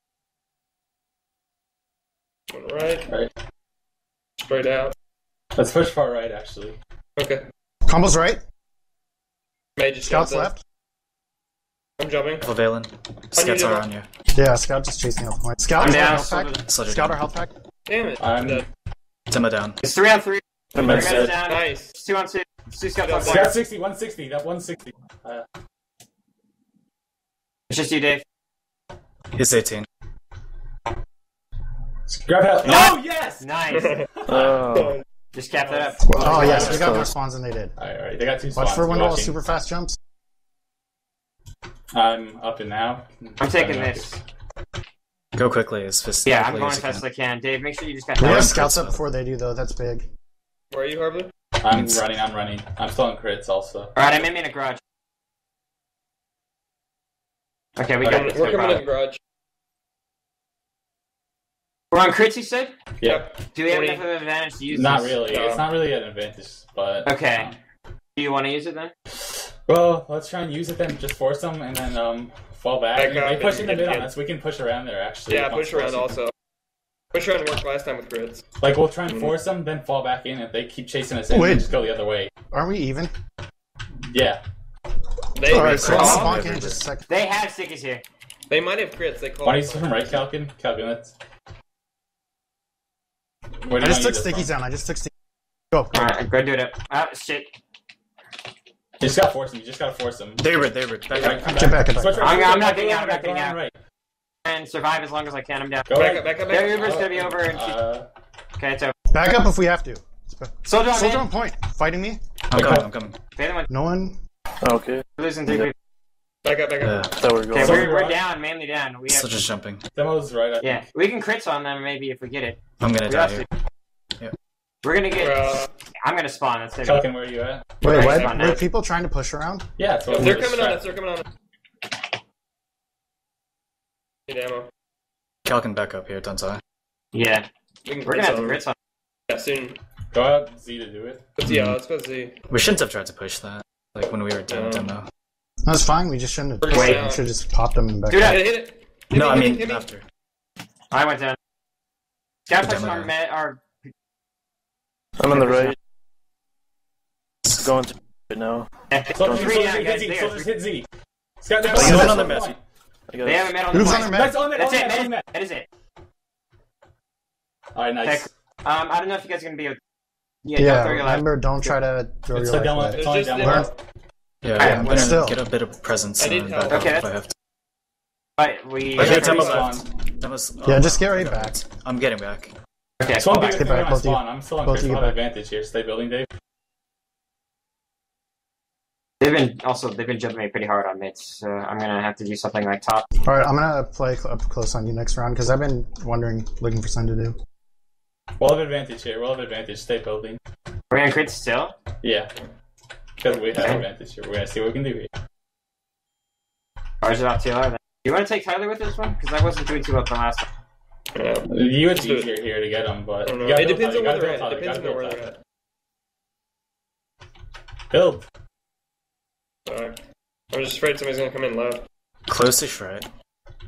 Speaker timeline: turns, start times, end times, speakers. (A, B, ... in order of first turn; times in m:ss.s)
0:02.5-0:03.1 A
0:04.4-0:04.9 A
0:05.6-0:06.8 B
0:07.2-0:07.4 A
0:07.9-0:08.4 C
0:09.8-0:10.5 A
0:10.0-0:10.6 C
0:12.0-0:12.5 A
0:12.4-0:14.0 D
0:13.4-0:13.8 A
0:14.3-0:17.5 C
0:15.8-0:16.6 E
0:16.7-0:17.2 D
0:17.9-0:18.6 A
0:18.2-0:18.6 B
0:19.3-0:19.8 D
0:19.8-0:23.5 E
0:20.7-0:21.2 F
0:20.8-0:21.4 B
0:20.9-0:21.9 A
0:23.0-0:23.6 A
0:23.2-0:25.4 B
0:27.7-0:28.2 E
0:29.3-0:29.8 D
0:32.1-0:34.4 B
0:32.6-0:34.0 E
0:33.7-0:34.0 A
0:34.3-0:35.0 F
0:35.3-0:36.9 E
0:35.7-0:36.9 B
0:36.1-0:37.7 C
0:36.7-0:37.0 F
0:37.8-0:39.3 B
0:38.5-0:40.0 C
0:41.9-0:44.1 B
0:43.4-0:44.2 E
0:45.3-0:47.0 D
0:46.2-0:48.6 E
0:48.2-0:49.0 D
0:48.2-0:50.1 C
0:50.7-0:51.3 A
0:51.6-0:54.0 B
0:54.0-0:54.8 E
0:57.8-0:58.8 E
0:58.0-0:58.7 B
0:58.0-0:59.2 A
1:01.9-1:02.7 E
1:03.0-1:03.2 B
1:03.0-1:04.0 A
1:03.5-1:05.2 E
1:04.7-1:07.5 B
1:05.3-1:05.6 A
1:07.0-1:07.5 E
1:08.2-1:08.9 E
1:09.3-1:16.1 B
1:13.0-1:14.1 A
1:15.3-1:16.3 A
1:17.1-1:18.4 A
1:18.6-1:22.3 B
1:21.3-1:21.7 C
1:22.5-1:23.1 C
1:24.1-1:24.4 B
1:25.3-1:26.4 A
1:25.5-1:27.0 C
1:25.5-1:26.8 D
1:27.1-1:28.0 E
1:28.5-1:30.2 A
1:29.4-1:31.1 B
1:33.6-1:34.5 B
1:33.8-1:35.1 C
1:35.7-1:36.0 C
1:35.9-1:37.5 E
1:39.0-1:43.8 B
1:40.4-1:41.7 D
1:41.1-1:41.4 A
1:41.6-1:42.4 C
1:42.2-1:43.6 E
1:44.4-1:45.8 E
1:45.9-1:48.0 B
1:45.9-1:47.1 A
1:46.5-1:47.8 E
1:48.6-1:48.9 E
1:49.1-1:52.2 C
1:50.6-1:51.2 E
1:52.5-1:53.2 D
1:52.5-1:52.9 B
1:53.3-1:53.7 E
1:53.7-1:54.2 C
1:54.6-1:55.7 F
1:55.2-1:55.7 E
1:56.4-1:57.1 A
1:56.8-1:57.1 D
1:57.2-1:57.9 F
1:57.5-1:59.3 E
1:57.5-1:58.2 B
1:59.1-1:59.8 D
1:59.9-2:00.8 B
2:00.6-2:03.4 E
2:02.8-2:03.4 D
2:04.8-2:07.0 E
2:05.1-2:05.7 A
2:06.8-2:07.7 B
2:07.8-2:09.7 C
2:07.8-2:08.6 E
2:07.8-2:08.3 A
2:09.8-2:10.8 B
2:10.1-2:11.2 A
2:14.3-2:14.7 A
2:15.4-2:16.6 D
2:17.1-2:17.4 E
2:17.8-2:18.6 A
2:18.0-2:18.7 E
2:19.3-2:19.8 A
2:20.1-2:21.2 B
2:21.4-2:22.3 A
2:21.4-2:21.8 D
2:22.5-2:25.1 D
2:24.5-2:24.9 A
2:25.6-2:28.4 C
2:26.6-2:27.2 A
2:26.7-2:27.0 E
2:28.1-2:28.4 E
2:28.2-2:29.9 A
2:29.1-2:30.0 D
2:30.9-2:31.4 E
2:32.5-2:33.9 E
2:32.6-2:33.1 D
2:35.2-2:35.7 F
2:35.4-2:35.7 E
2:37.5-2:39.6 F
2:38.9-2:40.5 E
2:39.1-2:40.9 B
2:41.4-2:42.6 B
2:41.7-2:42.3 F
2:41.7-2:42.6 D
2:43.1-2:43.6 F
2:43.2-2:45.6 E
2:43.7-2:44.4 C
2:44.0-2:45.3 B
2:47.7-2:48.3 B
2:48.0-2:49.8 E
2:50.4-2:51.2 E
2:50.6-2:53.7 C
2:52.3-2:53.7 B
2:53.0-2:53.7 A
2:54.4-2:57.3 D
2:54.6-2:55.4 C
2:56.2-2:57.0 A
2:56.7-2:57.0 E
2:58.4-2:59.6 E
2:59.0-2:59.8 B
2:59.0-3:02.5 D
2:59.0-2:59.7 A
3:00.6-3:01.6 C
3:03.0-3:06.3 B
3:03.4-3:05.2 C
3:09.2-3:13.1 E
3:13.2-3:17.4 C
3:18.4-3:20.4 B
3:20.9-3:21.7 E
3:22.0-3:22.3 B
3:23.2-3:25.1 B
3:27.0-3:30.4 E
3:31.1-3:32.3 A
3:31.5-3:35.3 B
3:33.2-3:35.3 A
3:37.9-3:38.2 B
3:39.6-3:40.0 A
3:40.5-3:41.8 A
3:42.3-3:43.1 D